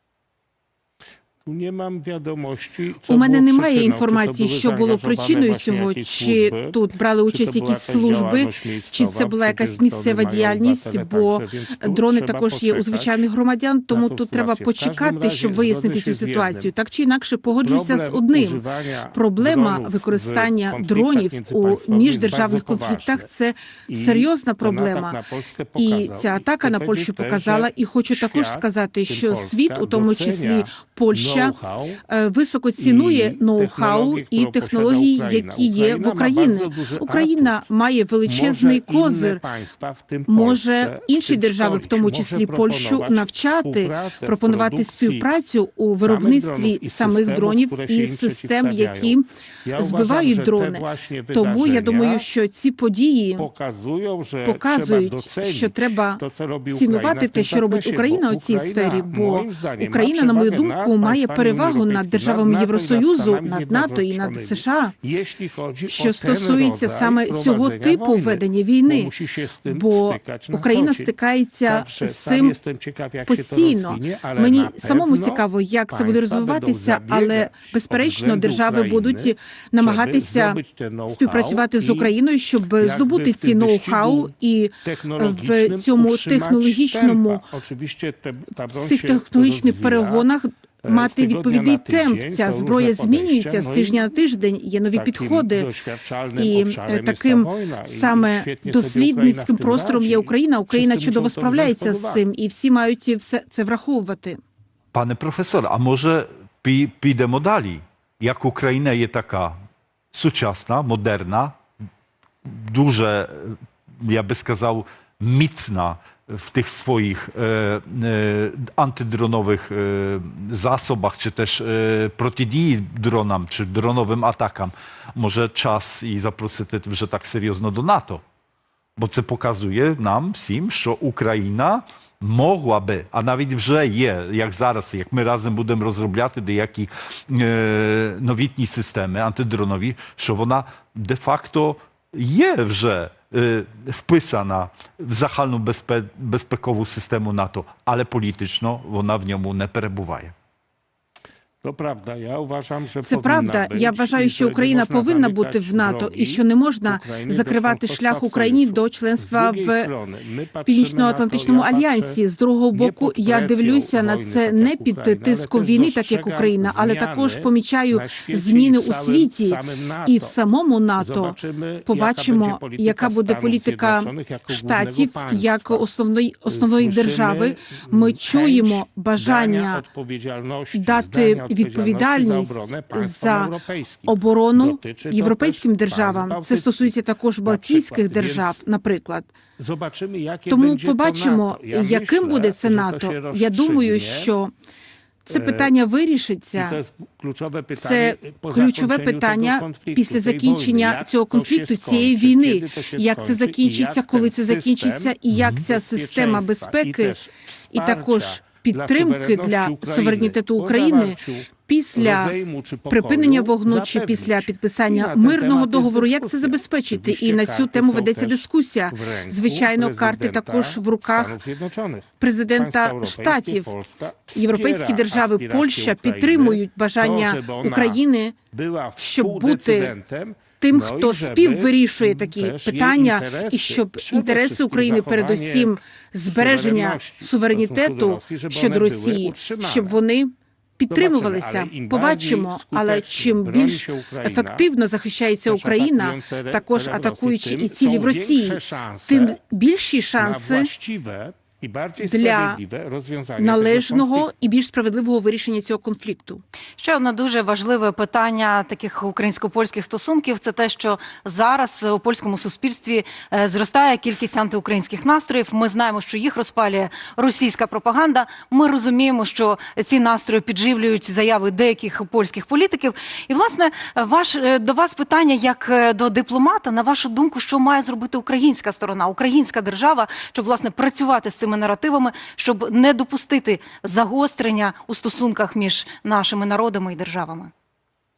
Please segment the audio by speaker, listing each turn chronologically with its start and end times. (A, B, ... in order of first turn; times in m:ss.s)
0:01.4-0:13.3 A
0:03.1-0:25.2 B
0:13.9-0:16.7 A
0:17.6-0:23.3 A
0:23.9-0:32.0 A
0:25.8-0:31.6 B
0:32.1-0:39.4 B
0:32.8-0:37.6 A
0:38.2-0:45.3 A
0:40.3-0:49.3 B
0:46.0-0:52.3 A
0:49.8-0:53.5 B
0:53.4-1:22.1 A
0:54.4-1:04.9 B
1:05.9-1:09.1 B
1:09.6-1:12.6 B
1:13.2-1:27.4 B
1:22.8-1:30.3 A
1:28.7-1:35.7 B
1:30.8-1:34.1 A
1:34.9-1:42.2 A
1:36.4-1:44.4 B
1:44.9-1:49.6 C
1:50.1-1:51.6 C
1:52.5-2:08.2 C
2:09.0-2:30.3 C
2:31.6-2:50.4 A
2:33.0-2:39.9 B
2:40.7-2:59.8 B
2:51.0-2:55.9 A
2:56.5-3:08.6 A
3:00.7-3:09.3 B
3:09.6-3:14.3 A
3:10.5-3:14.5 B
3:15.3-3:16.8 B
3:15.3-3:15.7 A
3:16.5-4:00.0 A
3:17.7-3:27.2 B
3:25.3-3:25.6 C
3:27.7-3:32.4 B
3:32.9-3:41.4 B
3:42.2-3:43.7 B
3:44.3-3:48.4 B
3:49.0-3:50.0 B
3:50.6-4:10.7 B
4:00.9-4:04.7 A
4:05.5-4:09.4 A
4:10.2-4:14.3 A
4:12.0-4:12.6 B
4:13.4-4:16.4 B
4:16.8-4:47.5 D